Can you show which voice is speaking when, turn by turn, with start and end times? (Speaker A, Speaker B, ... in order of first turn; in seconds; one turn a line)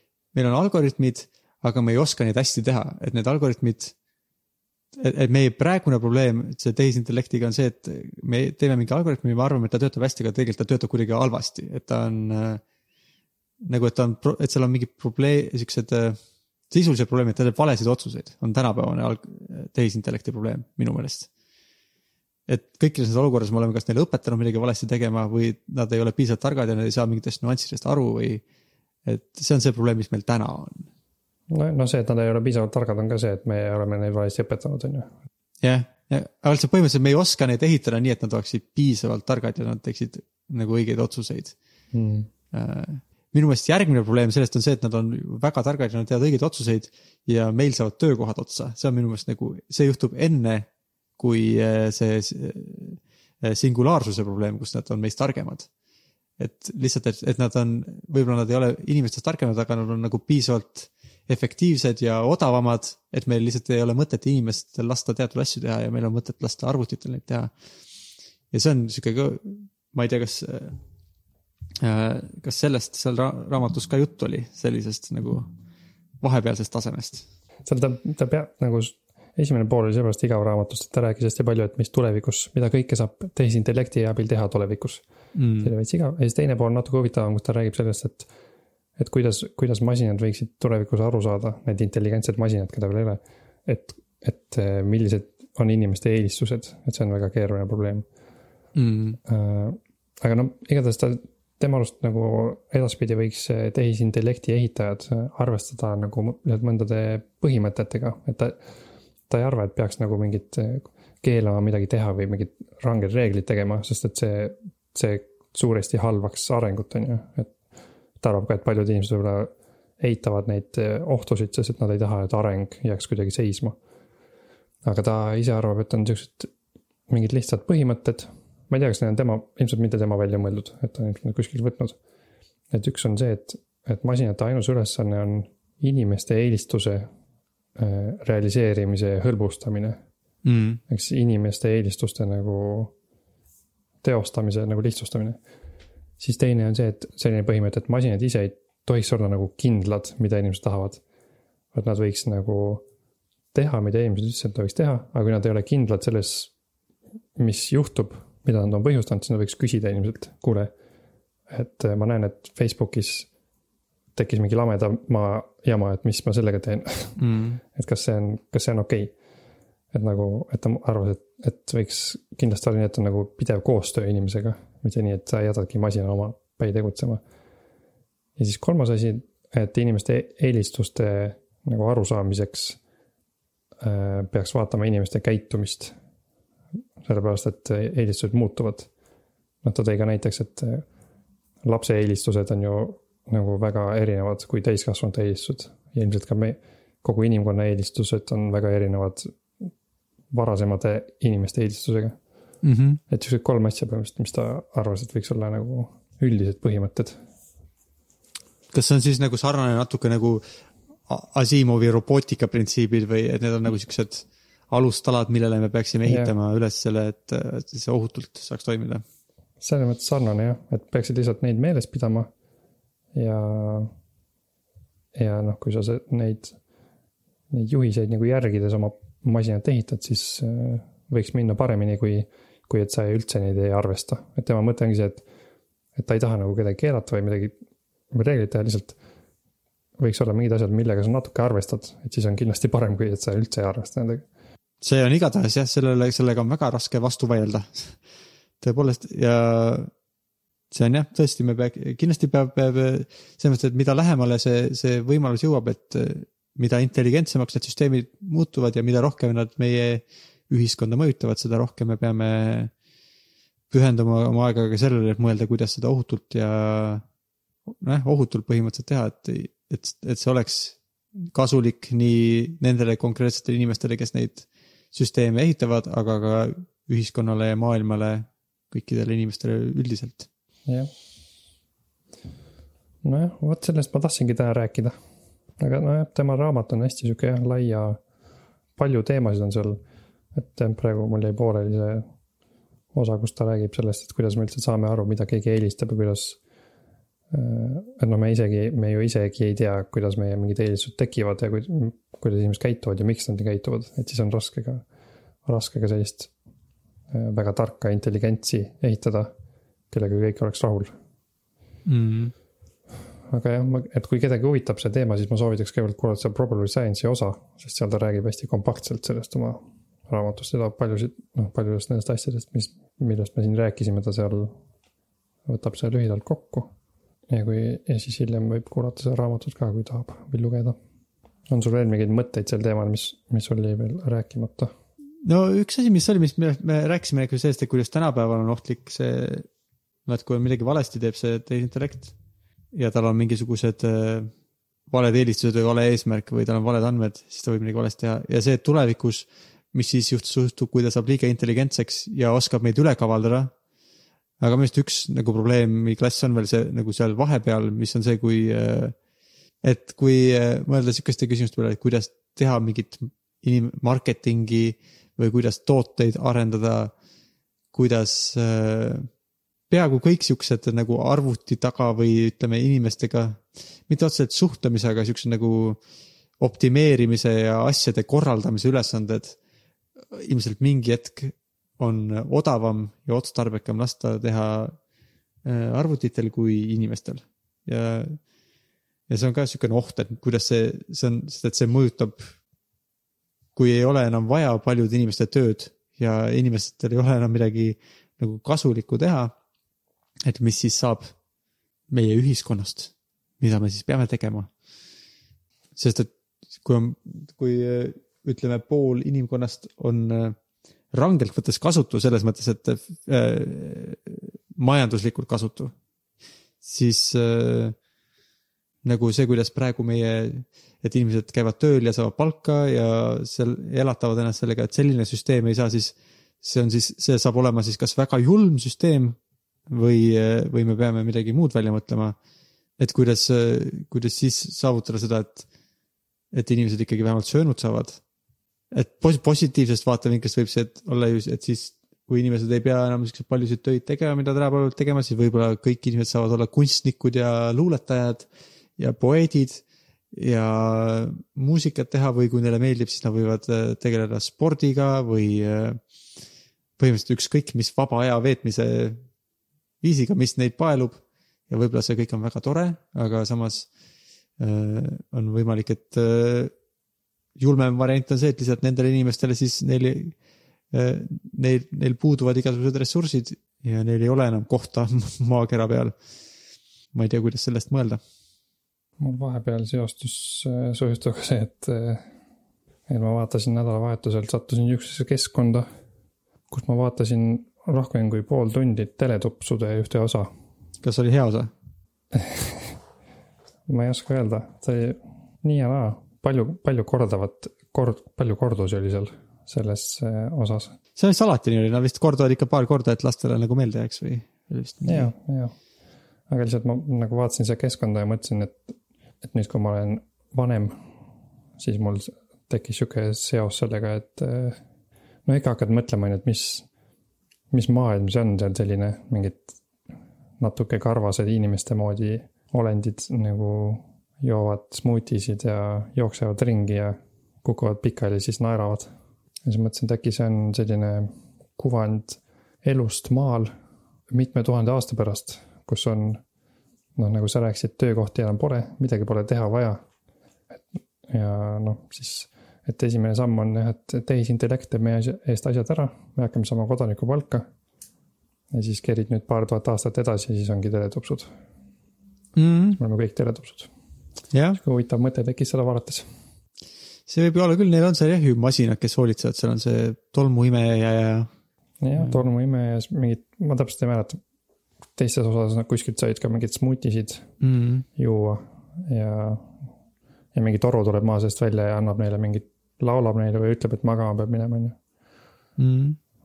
Speaker A: 0.3-3.9
Speaker A: 5.0-12.6
Speaker A: 13.6-16.2
Speaker A: 16.7-21.3
Speaker A: 22.5-28.4
Speaker A: 29.1-30.9
Speaker B: 31.5-35.1
Speaker A: 35.6-41.5
Speaker B: 41.9-42.3
Speaker A: 42.5-55.7
Speaker A: 56.4-67.5
Speaker A: 68.5-70.8
Speaker A: 71.8-75.5
Speaker A: 76.2-77.3
Speaker B: 77.7-85.0
Speaker A: 85.3-85.7
Speaker B: 85.6-88.3
Speaker B: 89.0-98.0
Speaker A: 98.8-99.2
Speaker B: 99.3-108.6
Speaker B: 109.3-117.5
Speaker B: 118.2-123.8
Speaker B: 124.8-126.5
Speaker B: 127.1-132.0
Speaker B: 132.7-137.1
Speaker B: 137.8-140.0
Speaker A: 140.4-140.8
Speaker B: 140.9-142.9
Speaker B: 144.0-145.4
Speaker B: 146.2-151.0
Speaker B: 151.7-152.8
Speaker B: 153.5-156.5
Speaker B: 157.4-160.7
Speaker B: 161.5-163.3
Speaker B: 164.2-167.2
Speaker A: 167.2-167.6
Speaker B: 167.8-169.1
Speaker B: 169.9-177.2
Speaker B: 178.4-182.8
Speaker B: 183.8-185.9
Speaker B: 187.0-188.9
Speaker B: 189.6-190.9
Speaker B: 191.6-199.4
Speaker B: 200.3-202.2
Speaker A: 202.6-203.0
Speaker B: 203.1-207.2
Speaker A: 208.7-210.4
Speaker A: 211.1-219.0
Speaker B: 216.0-216.3
Speaker B: 219.6-222.3
Speaker B: 223.1-223.9
Speaker B: 225.1-226.6
Speaker B: 227.5-235.2
Speaker B: 236.0-237.6
Speaker B: 238.1-239.0
Speaker B: 240.0-244.3
Speaker A: 244.8-248.0
Speaker A: 248.6-249.9
Speaker A: 250.7-262.7
Speaker A: 263.7-267.0
Speaker A: 267.8-280.3
Speaker B: 283.0-285.0
Speaker B: 285.6-288.0
Speaker B: 288.8-289.8
Speaker B: 290.3-292.1
Speaker B: 292.9-296.4
Speaker B: 297.3-304.9
Speaker B: 305.4-306.3
Speaker B: 307.1-309.3
Speaker B: 309.9-310.9
Speaker A: 311.9-312.3
Speaker B: 313.3-324.6
Speaker B: 325.5-326.7
Speaker B: 327.3-330.8
Speaker B: 331.5-334.7
Speaker A: 335.2-339.5
Speaker A: 340.1-342.1
Speaker A: 342.7-344.3
Speaker A: 344.9-353.5
Speaker A: 354.4-359.0
Speaker A: 359.6-366.9
Speaker A: 367.7-369.1
Speaker A: 369.7-375.8
Speaker A: 376.4-379.4
Speaker A: 380.1-384.8
Speaker A: 385.4-388.2
Speaker A: 389.1-392.3
Speaker A: 393.6-399.3
Speaker A: 400.2-401.1
Speaker A: 401.9-404.5
Speaker A: 405.8-410.4
Speaker A: 410.9-415.7
Speaker A: 416.6-417.8
Speaker A: 418.8-429.2
Speaker A: 429.7-432.2
Speaker A: 432.8-435.5
Speaker A: 436.3-438.0
Speaker A: 438.7-455.8
Speaker A: 456.8-459.0
Speaker A: 459.8-463.7
Speaker A: 464.4-466.5
Speaker A: 467.4-470.1
Speaker A: 470.7-475.9
Speaker A: 476.9-478.0
Speaker B: 479.0-482.1
Speaker B: 482.9-485.7
Speaker B: 486.5-490.3
Speaker A: 490.8-491.5
Speaker B: 492.1-492.7
Speaker B: 493.7-500.8
Speaker A: 501.0-505.1
Speaker B: 504.9-505.6
Speaker B: 506.3-510.8
Speaker B: 511.6-514.6
Speaker B: 515.3-516.7
Speaker B: 517.5-519.5
Speaker B: 520.4-528.9
Speaker B: 529.4-533.5
Speaker B: 534.1-536.2
Speaker B: 537.0-539.8
Speaker B: 541.1-547.5
Speaker B: 548.5-551.3
Speaker A: 552.4-552.8
Speaker B: 552.8-553.7
Speaker A: 554.3-554.6
Speaker B: 554.5-556.1
Speaker A: 557.1-561.3
Speaker B: 561.8-564.2
Speaker B: 565.0-567.3
Speaker A: 567.4-567.9
Speaker B: 568.0-569.5
Speaker B: 570.3-574.8
Speaker A: 575.6-576.0